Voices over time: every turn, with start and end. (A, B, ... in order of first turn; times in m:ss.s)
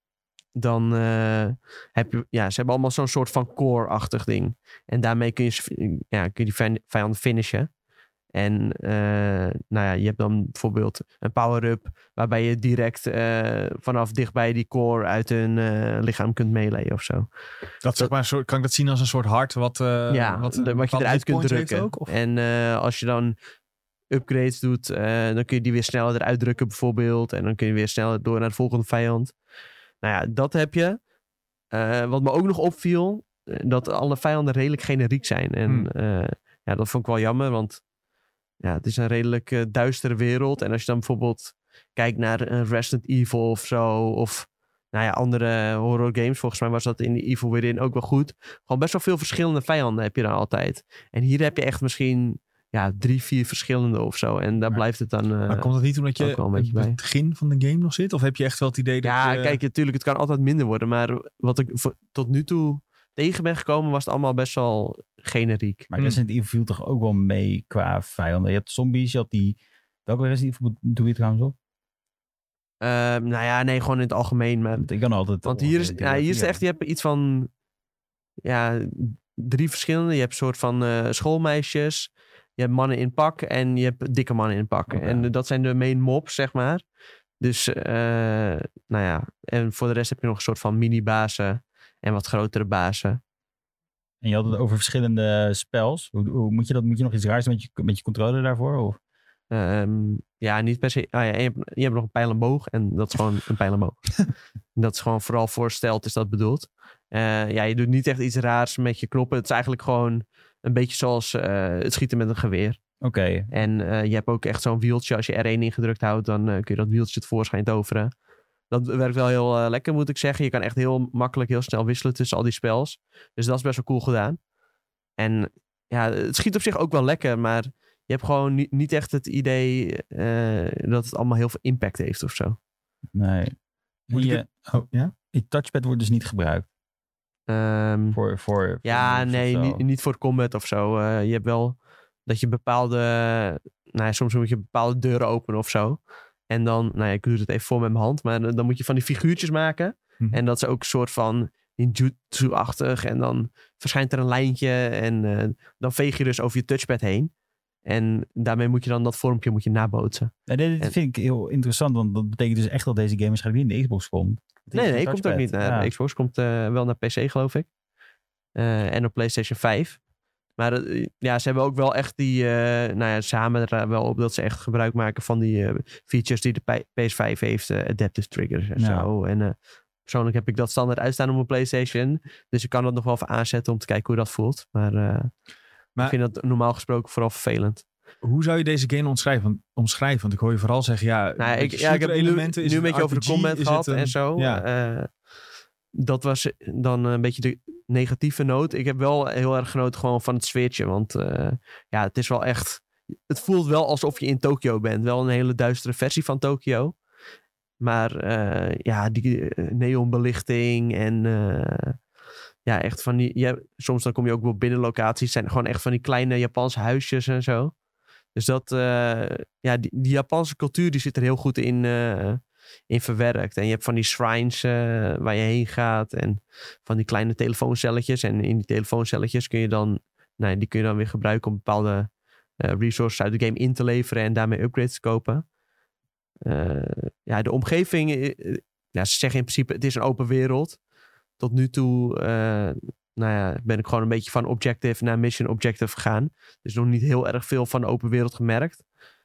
0:00.6-0:07.7 A
0:08.3-0:17.3 A
0:17.8-0:22.1 B
0:20.1-0:23.4 A
0:24.1-0:29.3 A
0:30.0-0:31.0 A
0:31.7-0:37.8 A
0:38.6-0:57.0 A
0:55.5-0:59.6 B
0:59.0-1:05.9 A
1:05.9-1:11.6 C
1:12.8-1:14.9 A
1:14.8-1:16.6 C
1:15.4-1:17.5 A
1:18.4-1:26.8 A
1:24.9-1:25.3 C
1:27.4-1:33.2 A
1:34.2-1:39.0 C
1:39.5-1:44.2 A
1:44.8-1:52.8 A
1:53.0-1:53.5 C
1:53.5-1:58.1 A
1:58.7-2:04.4 A
2:05.2-2:12.6 A
2:13.1-2:13.6 C
2:14.1-2:14.7 C
2:14.1-2:15.1 B
2:15.3-2:16.7 C
2:17.5-2:18.2 A
2:18.1-2:19.8 C
2:18.8-2:37.3 A
2:37.9-2:40.9 A
2:40.5-2:45.9 C
2:44.7-2:47.7 A
2:48.6-2:50.0 A
2:50.6-3:05.3 A
2:58.8-2:59.1 C
3:06.0-3:07.8 A
3:08.2-3:14.6 B
3:11.4-3:15.1 A
3:15.9-3:27.0 A
3:27.8-3:32.0 A
3:32.6-3:37.7 A
3:38.4-3:55.4 A
3:56.4-4:00.8 A
4:01.4-4:08.8 A